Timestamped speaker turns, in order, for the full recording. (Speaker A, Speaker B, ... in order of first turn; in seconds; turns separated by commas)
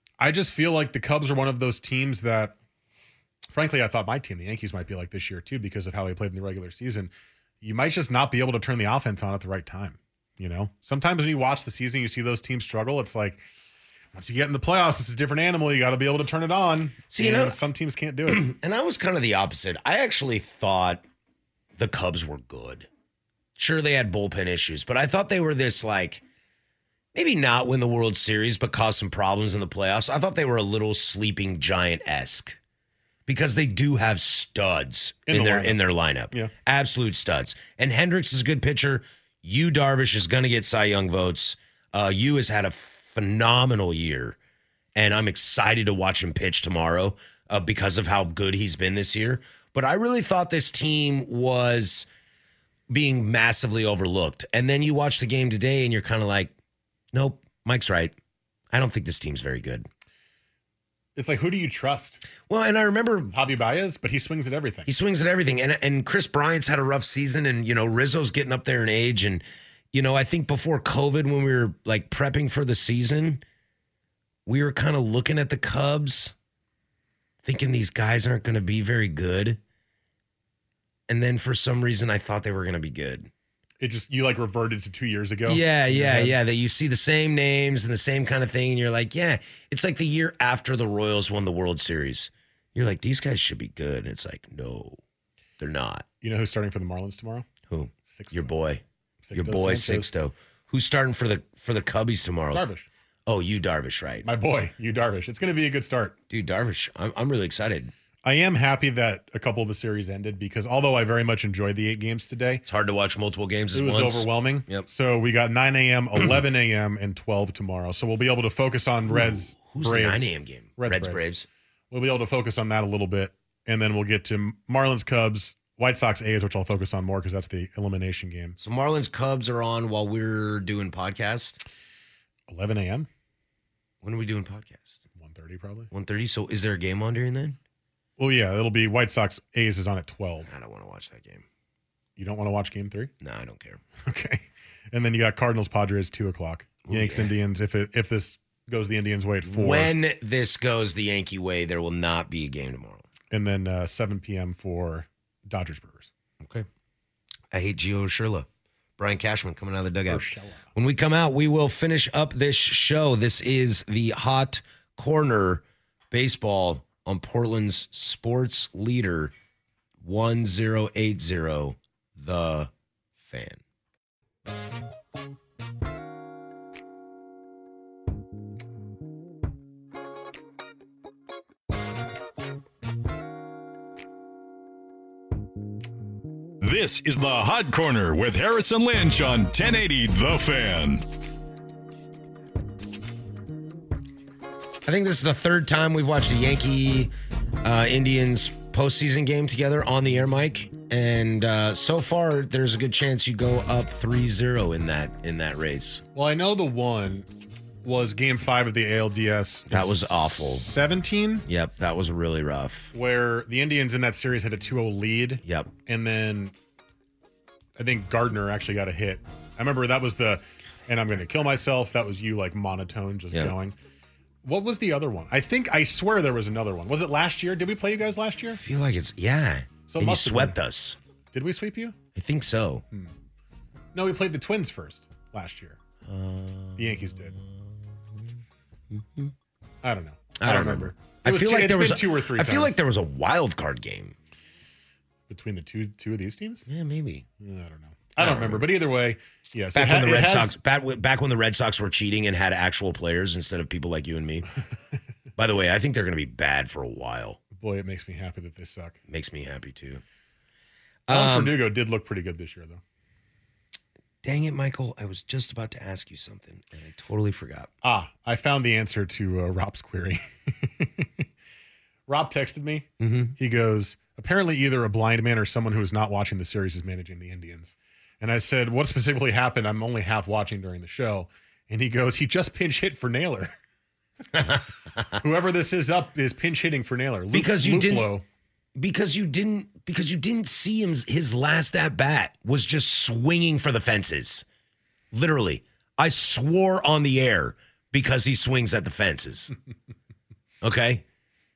Speaker A: 0.2-2.6, Speaker A: 3.5-13.4, Speaker A: 14.1-18.5, Speaker B: 17.1-17.6, Speaker B: 18.3-21.1, Speaker B: 21.8-22.9, Speaker B: 23.6-26.2, Speaker B: 27.1-32.6, Speaker B: 33.3-44.4, Speaker A: 35.3-35.8, Speaker B: 45.0-52.1, Speaker B: 52.9-56.5, Speaker B: 57.1-58.2, Speaker B: 58.7-59.9, Speaker A: 61.2-62.2, Speaker B: 62.4-63.3, Speaker A: 63.3-64.9, Speaker B: 64.9-73.4, Speaker B: 74.5-76.3, Speaker B: 77.4-79.6, Speaker B: 81.1-83.3, Speaker A: 83.8-86.4, Speaker B: 85.5-95.0, Speaker B: 95.6-96.1, Speaker A: 96.2-97.5, Speaker B: 97.7-98.8, Speaker A: 98.1-98.5, Speaker A: 99.2-100.1, Speaker B: 99.3-102.7, Speaker A: 102.5-102.9, Speaker B: 103.3-104.3, Speaker A: 104.2-106.2, Speaker B: 106.3-107.9, Speaker A: 108.2-112.6, Speaker B: 112.7-114.9, Speaker A: 113.7-121.2, Speaker B: 119.1-121.5, Speaker A: 121.9-128.6, Speaker B: 128.6-131.6, Speaker A: 132.5-133.1, Speaker B: 134.0-135.0, Speaker A: 135.2-135.9, Speaker B: 135.9-137.6, Speaker A: 138.2-140.5, Speaker B: 140.4-141.4, Speaker A: 142.2-143.1, Speaker B: 143.2-143.8, Speaker A: 144.1-149.9, Speaker B: 146.8-147.3, Speaker B: 149.5-153.1, Speaker A: 153.3-156.1, Speaker B: 156.4-156.7, Speaker B: 157.5-158.5, Speaker B: 159.0-169.3, Speaker A: 160.1-160.7, Speaker B: 170.0-173.6, Speaker C: 186.6-191.0, Speaker B: 194.9-197.1, Speaker B: 197.6-206.0, Speaker A: 206.1-207.3, Speaker A: 207.8-211.4, Speaker B: 209.7-210.7, Speaker B: 211.5-212.9, Speaker A: 212.9-216.5, Speaker B: 215.4-215.7, Speaker A: 217.8-223.8, Speaker A: 224.4-228.6, Speaker B: 228.5-231.0, Speaker A: 229.9-230.6, Speaker A: 231.3-232.0, Speaker B: 232.2-232.8, Speaker A: 233.9-235.8, Speaker B: 236.0-237.7, Speaker A: 236.8-237.4, Speaker B: 238.9-239.3, Speaker A: 239.8-242.8, Speaker B: 240.4-244.2, Speaker A: 245.3-246.7, Speaker B: 246.7-247.3, Speaker A: 247.4-250.6, Speaker B: 248.2-248.7, Speaker B: 249.7-254.5, Speaker B: 255.4-257.4, Speaker A: 257.5-259.0, Speaker B: 259.1-260.0, Speaker B: 261.1-261.6, Speaker A: 261.1-262.8, Speaker B: 264.2-267.7, Speaker A: 267.8-271.3, Speaker A: 272.1-283.6, Speaker B: 273.0-273.4, Speaker B: 284.3-284.6, Speaker A: 285.2-288.2, Speaker B: 287.3-288.1, Speaker B: 288.8-294.5, Speaker B: 295.1-299.5, Speaker B: 300.6-301.1